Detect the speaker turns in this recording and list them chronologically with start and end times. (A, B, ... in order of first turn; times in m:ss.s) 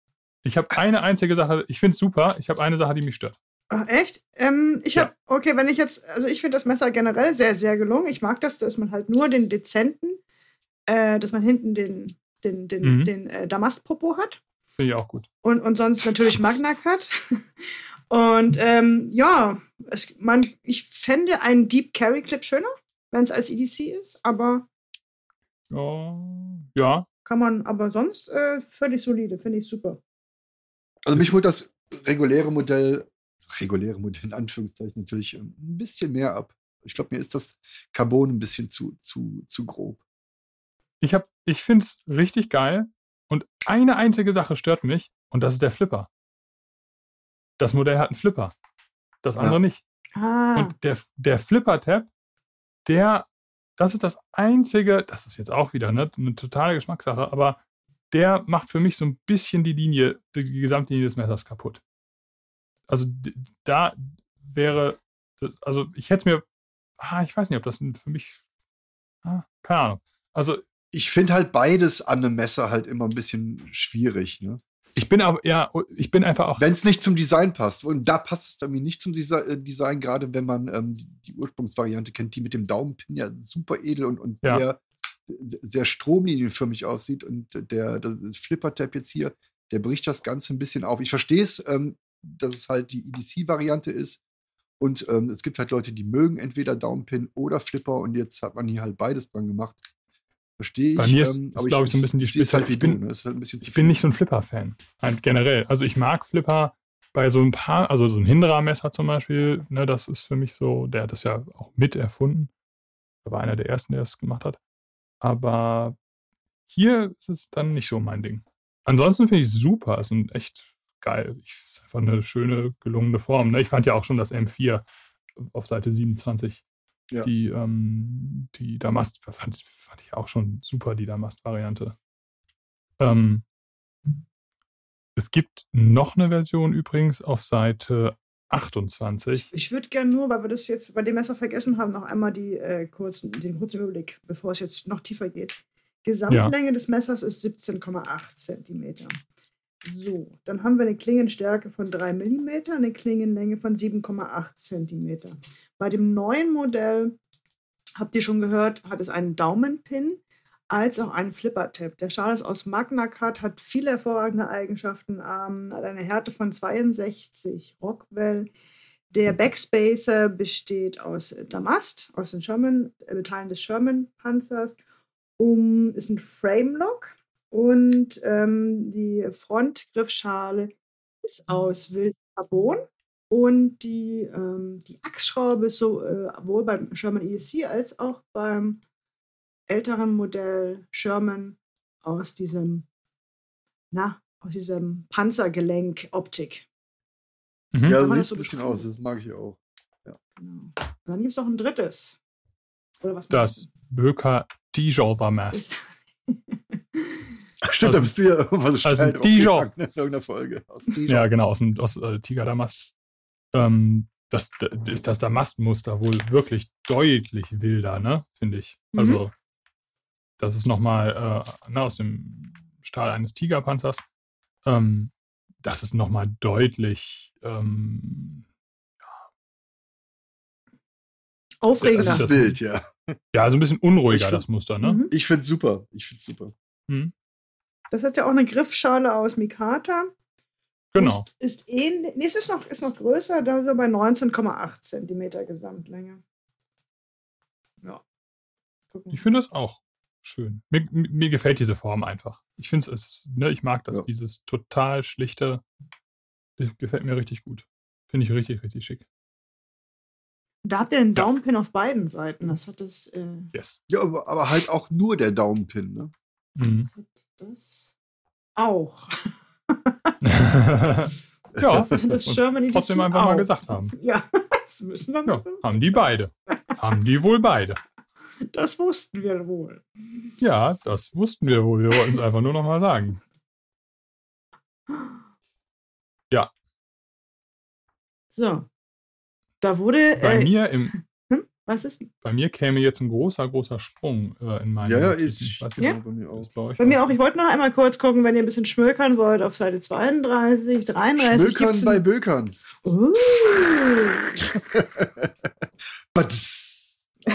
0:00.4-0:03.4 A
0:03.7-0:10.2 B
0:10.9-0:14.4 B
0:12.8-0:13.1 A
0:14.8-0:15.3 A
0:15.4-0:24.7 B
0:25.7-0:27.1 A
0:27.2-0:30.0 B
0:31.1-0:40.0 C
0:41.0-0:46.1 A
0:47.6-0:48.5 A
0:49.2-0:49.8 A
0:50.2-0:50.7 B
0:50.6-0:52.1 A
0:52.9-0:57.6 A
0:58.1-1:01.8 A
1:02.9-1:06.4 A
1:07.0-1:08.4 A
1:09.2-1:10.6 A
1:10.9-1:14.6 C
1:15.0-1:16.7 A
1:16.6-1:34.2 C
1:34.8-1:39.9 C
1:40.6-1:44.0 C
1:41.0-1:43.0 A
1:43.6-1:52.5 A
1:53.2-1:54.6 A
1:55.2-1:56.0 A
1:56.7-2:06.6 A
2:07.2-2:12.0 A
2:13.0-2:13.4 A
2:15.2-2:19.5 A
2:19.5-2:29.2 B
2:26.3-2:26.5 A
2:29.8-2:37.2 B
2:38.0-2:40.2 B
2:40.7-2:48.5 B
2:49.1-2:54.8 B
2:55.4-3:08.8 B
3:09.7-3:12.9 B
3:13.9-3:16.7 B
3:17.7-3:18.0 A
3:17.9-3:20.2 C
3:17.9-3:18.9 B
3:20.4-3:22.2 B
3:23.0-3:23.7 B
3:23.3-3:25.6 A
3:25.5-3:27.3 B
3:27.6-3:31.3 C
3:27.8-3:28.1 A
3:28.8-3:29.7 A
3:31.1-3:32.8 A
3:33.5-3:39.3 A
3:38.9-3:39.2 B
3:40.4-3:44.0 A
3:44.6-3:45.1 A
3:45.6-3:48.4 A
3:51.6-3:52.3 B
3:51.8-3:52.6 A
3:52.0-3:53.2 C
3:53.3-3:55.0 A
3:54.1-3:54.4 C
3:54.8-3:55.1 B
3:55.1-3:56.5 C
3:57.9-4:00.1 B
4:00.9-4:01.2 A
4:01.0-4:06.2 B
4:08.9-4:09.2 B
4:09.1-4:15.6 A
4:16.6-4:19.0 A
4:20.6-4:23.5 B
4:23.9-4:26.1 C
4:26.6-4:26.9 A
4:26.9-4:27.9 B
4:28.6-4:30.2 B
4:30.2-4:34.0 A
4:31.6-4:31.9 C
4:31.9-4:36.0 B
4:35.3-4:37.8 A
4:38.5-4:39.9 B
4:40.4-4:43.2 A
4:48.3-4:48.7 B
4:49.6-4:52.1 B
4:50.2-4:50.9 A
4:52.2-4:57.2 A
4:54.8-4:56.5 C
4:56.8-5:02.0 B
5:01.2-5:02.6 C
5:02.8-5:04.4 B
5:04.5-5:05.3 C
5:06.1-5:07.0 C